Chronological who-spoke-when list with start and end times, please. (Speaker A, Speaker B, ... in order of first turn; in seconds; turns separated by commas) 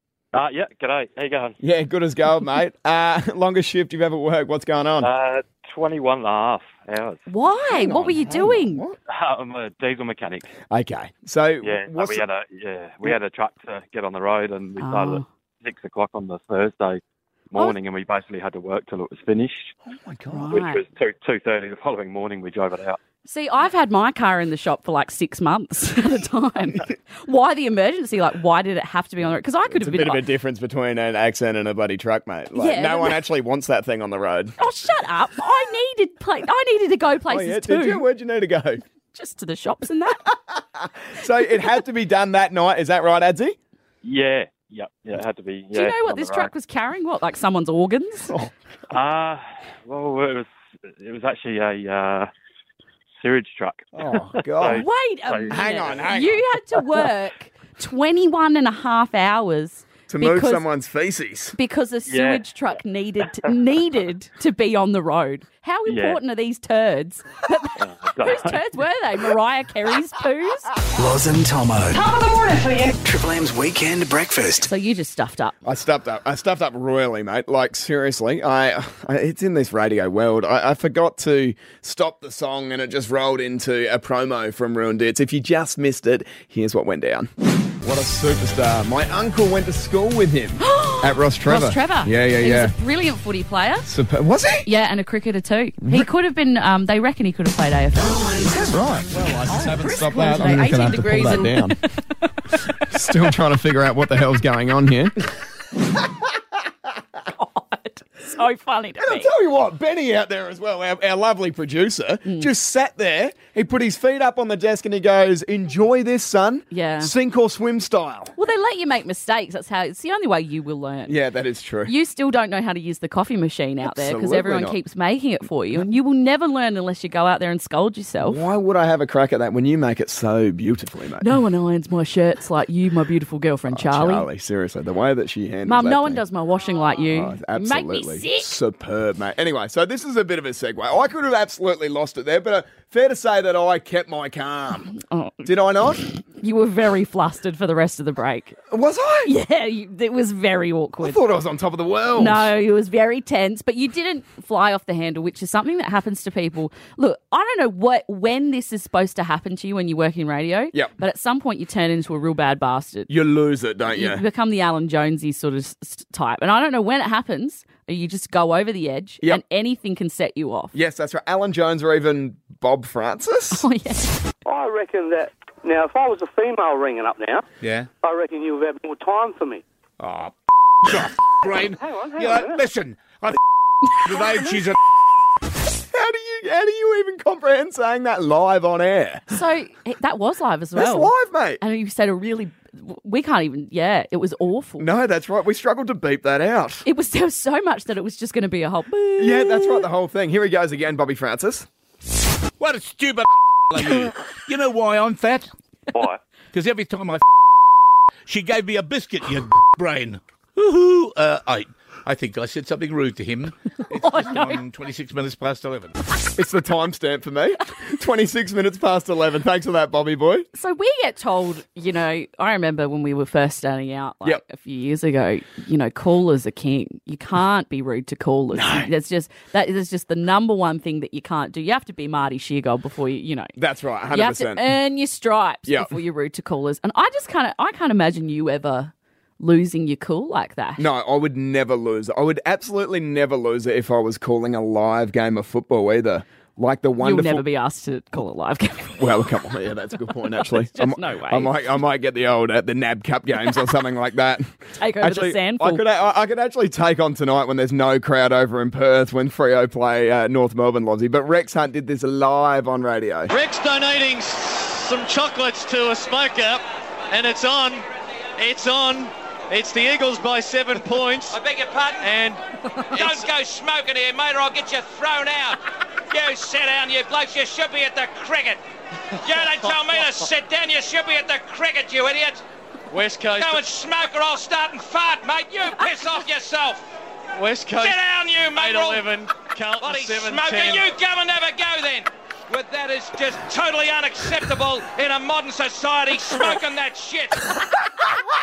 Speaker A: 0.3-1.6, Speaker B: 1.6-5.1, Speaker A: 5.0-7.2, Speaker C: 7.3-8.8, Speaker B: 7.7-9.0, Speaker A: 9.1-10.5, Speaker B: 10.7-12.2, Speaker A: 11.6-17.0, Speaker C: 14.8-15.2, Speaker A: 17.5-19.7, Speaker B: 19.9-20.5, Speaker C: 20.3-20.8, Speaker A: 20.5-23.0, Speaker C: 23.3-30.2, Speaker B: 29.7-34.5, Speaker C: 32.5-33.2, Speaker C: 34.6-38.0, Speaker B: 37.3-38.8, Speaker C: 39.1-40.3, Speaker B: 40.5-43.6, Speaker A: 44.0-46.5, Speaker C: 45.7-48.3, Speaker A: 48.9-52.3, Speaker A: 53.2-56.1, Speaker B: 54.0-54.9, Speaker C: 54.7-60.6, Speaker B: 55.5-57.1, Speaker B: 60.1-61.5, Speaker C: 61.5-70.7, Speaker A: 62.1-62.4, Speaker A: 65.9-66.2, Speaker A: 67.8-68.6, Speaker D: 71.0-72.1, Speaker D: 73.0-74.7, Speaker C: 74.6-75.6, Speaker B: 75.7-87.3, Speaker B: 87.8-92.8, Speaker C: 90.6-93.9, Speaker B: 93.9-94.7, Speaker C: 94.7-98.5, Speaker B: 95.8-96.1, Speaker B: 98.5-101.8, Speaker C: 99.5-103.0, Speaker B: 102.8-105.2, Speaker C: 107.3-109.3, Speaker B: 109.0-118.3, Speaker C: 112.2-112.5, Speaker C: 116.7-117.1, Speaker C: 118.4-121.2, Speaker B: 121.1-121.9, Speaker C: 121.8-128.4, Speaker B: 123.8-124.8, Speaker B: 128.2-131.3, Speaker C: 131.2-134.3, Speaker B: 133.7-136.2, Speaker C: 135.7-138.5, Speaker B: 137.0-146.1, Speaker C: 145.0-145.5, Speaker C: 146.3-148.6, Speaker B: 148.7-149.3, Speaker C: 149.2-151.2, Speaker B: 151.0-152.5, Speaker C: 152.2-163.1, Speaker B: 163.1-164.2, Speaker C: 163.9-170.7, Speaker B: 170.7-173.7, Speaker C: 173.5-174.3, Speaker E: 174.4-177.5, Speaker F: 177.6-177.9, Speaker E: 178.0-179.6, Speaker F: 180.0-183.4, Speaker E: 181.7-182.7, Speaker F: 183.9-184.8, Speaker B: 185.8-189.2, Speaker C: 189.3-194.9, Speaker B: 190.8-191.6, Speaker B: 194.8-196.8, Speaker C: 196.8-199.9, Speaker B: 199.2-201.7, Speaker F: 202.6-205.5, Speaker A: 205.9-206.2, Speaker F: 206.5-207.2, Speaker F: 208.3-215.9, Speaker C: 214.0-214.6, Speaker B: 216.4-220.5, Speaker C: 220.5-233.5, Speaker B: 228.5-228.9, Speaker B: 233.6-234.7, Speaker C: 234.1-240.9, Speaker B: 235.7-236.0, Speaker B: 240.8-247.4, Speaker C: 247.0-249.0, Speaker B: 249.0-263.3, Speaker C: 250.4-251.6, Speaker C: 254.8-255.8, Speaker G: 263.3-267.8, Speaker G: 268.4-271.4, Speaker H: 271.3-272.1, Speaker G: 272.0-272.4, Speaker H: 272.9-278.6, Speaker G: 272.9-273.3, Speaker H: 279.2-282.4, Speaker G: 282.9-283.7, Speaker H: 283.3-286.9, Speaker G: 287.4-290.9, Speaker H: 287.7-289.2, Speaker H: 289.8-297.5